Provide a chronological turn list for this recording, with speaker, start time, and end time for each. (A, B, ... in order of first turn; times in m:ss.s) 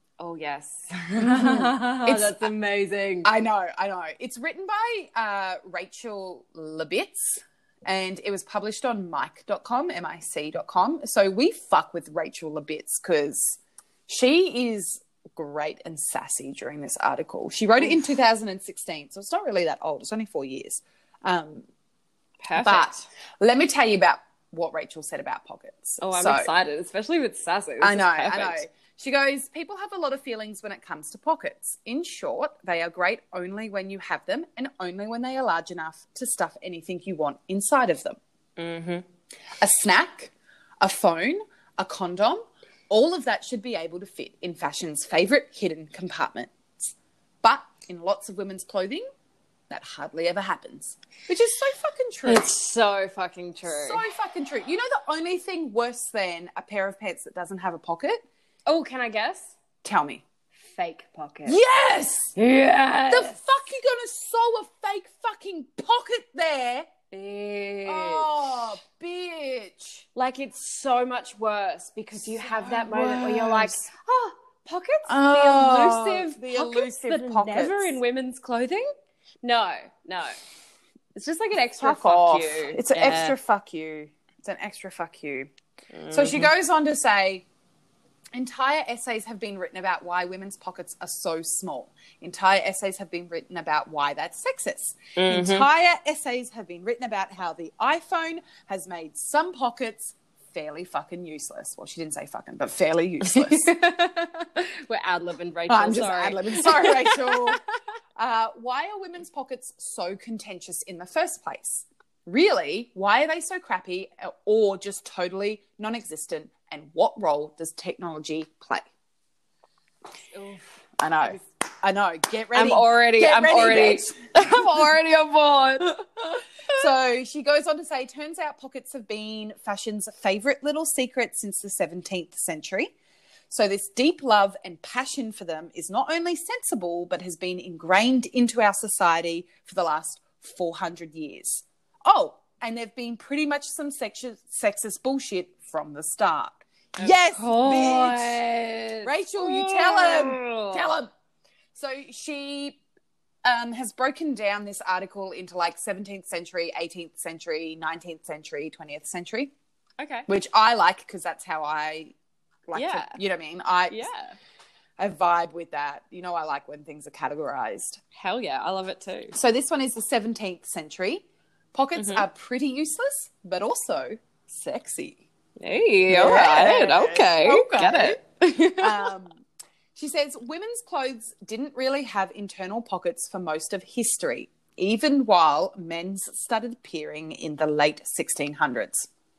0:00.2-0:03.3 A
0:01.2-0:02.5 B
0:03.2-0:21.7 B
0:22.4-0:23.0 A
0:22.6-0:26.5 B
0:26.0-0:28.6 A
0:27.8-0:38.2 B
0:38.6-0:39.0 A
0:39.6-0:49.0 B
0:49.7-0:52.5 B
0:52.3-0:54.0 A
0:53.7-0:58.2 B
0:58.7-0:59.6 A
0:59.8-1:00.2 B
1:00.7-1:01.6 A
1:01.5-1:02.3 B
1:02.4-1:03.4 A
1:03.1-1:06.9 B
1:07.1-1:08.3 A
1:07.9-1:10.1 B
1:10.2-1:18.9 A
1:12.2-1:13.8 B
1:15.1-1:18.0 B
1:19.4-1:20.4 A
1:21.2-1:23.4 A
1:21.8-1:25.5 B
1:25.9-1:26.5 A
1:26.1-1:27.5 B
1:28.3-1:43.7 B
1:35.2-1:35.7 A
1:43.2-1:47.6 A
1:45.7-1:47.6 B
1:48.2-1:58.9 B
2:00.2-2:00.7 A
2:01.0-2:04.2 B
2:02.5-2:06.0 A
2:06.7-2:12.9 B
2:13.5-2:28.4 B
2:27.0-2:30.9 A
2:29.0-2:31.1 B
2:31.8-2:32.8 B
2:33.4-2:39.5 B
2:40.0-2:40.3 A
2:40.3-2:42.1 B
2:42.7-2:44.1 B
2:42.7-2:43.2 A
2:43.9-2:44.4 A
2:45.0-2:48.0 B
2:48.2-2:49.4 A
2:49.3-2:55.2 B
2:52.0-2:52.3 A
2:55.6-2:59.1 A
2:56.1-2:58.2 B
2:58.8-2:59.4 B
3:00.0-3:09.1 B